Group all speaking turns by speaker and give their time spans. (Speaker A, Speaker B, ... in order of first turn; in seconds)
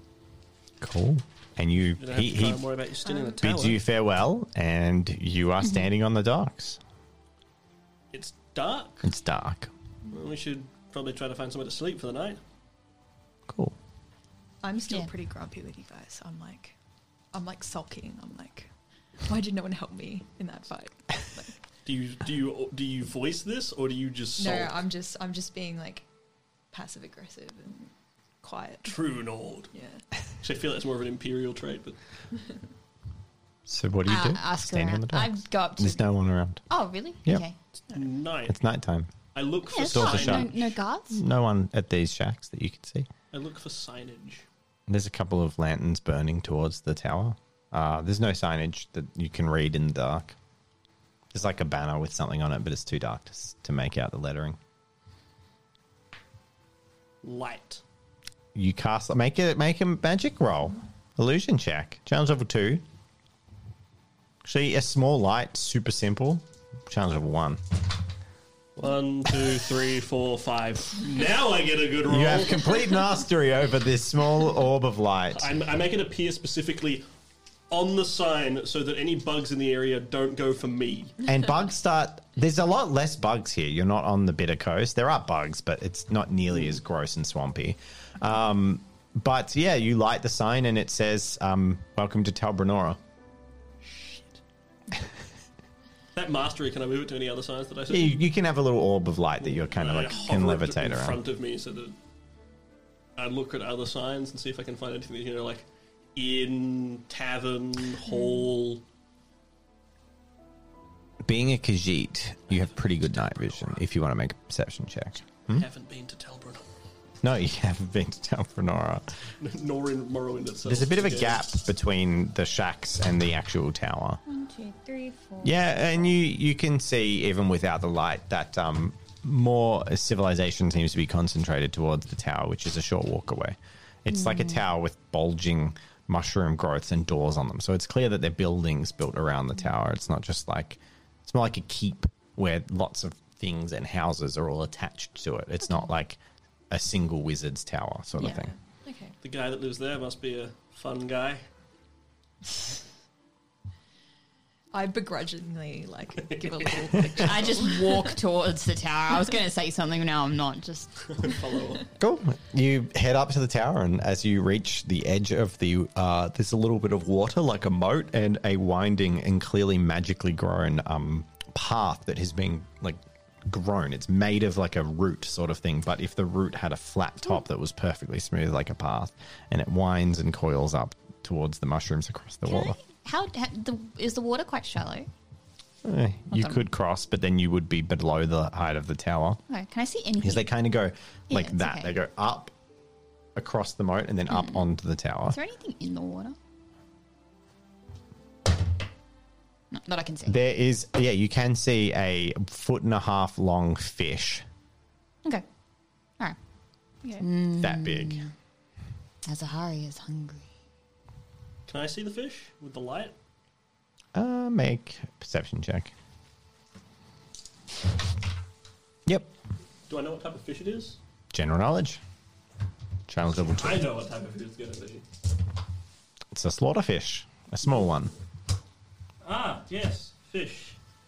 Speaker A: 0.8-2.6, 3.4-6.8, 9.0-9.7, 13.5-13.8, 33.7-36.6, 38.5-39.1, 39.8-43.1, 44.9-50.3, 51.3-54.6, 58.5-62.8, 64.4-67.6, 72.0-75.5, 81.2-93.0, 97.9-101.2, 111.2-115.7, 117.2-119.1, 120.6-124.2, 125.4-146.2, 146.7-148.5, 162.0-182.8, 185.8-189.4, 190.2-192.5, 193.3-195.4, 200.3-204.4, 207.6-208.2, 214.1-215.9, 219.1-219.3, 221.3-222.0, 223.1-223.9, 226.3-228.1
Speaker B: 2.0-3.8, 8.1-9.1, 10.1-12.4, 21.8-24.8, 28.8-29.7, 30.4-32.0, 37.9-38.5, 39.3-40.5, 43.3-44.4, 57.2-57.8, 68.8-72.7, 75.3-77.0, 77.7-81.2, 93.8-94.4, 96.1-98.2, 99.4-102.0, 103.2-108.8, 112.5-113.8, 115.5-116.7, 119.4-121.4, 149.2-151.4, 156.2-157.1, 161.1-161.9, 211.7-213.1, 219.9-221.0, 223.3-225.0, 229.2-230.8
Speaker C: 5.6-5.9, 34.1-36.0, 36.7-37.5, 39.7-41.2, 124.2-125.8, 134.1-134.6, 157.2-161.0, 182.4-185.1, 186.3-186.6, 189.5-190.5, 191.3-191.9, 194.3-194.6, 195.3-196.3, 199.7-200.3, 207.2-208.3, 209.2-210.5
Speaker D: 14.6-16.8, 17.3-18.7, 19.2-21.6, 24.4-26.0, 26.7-27.9, 28.4-28.9, 29.7-30.0, 148.2-149.1, 154.7-158.1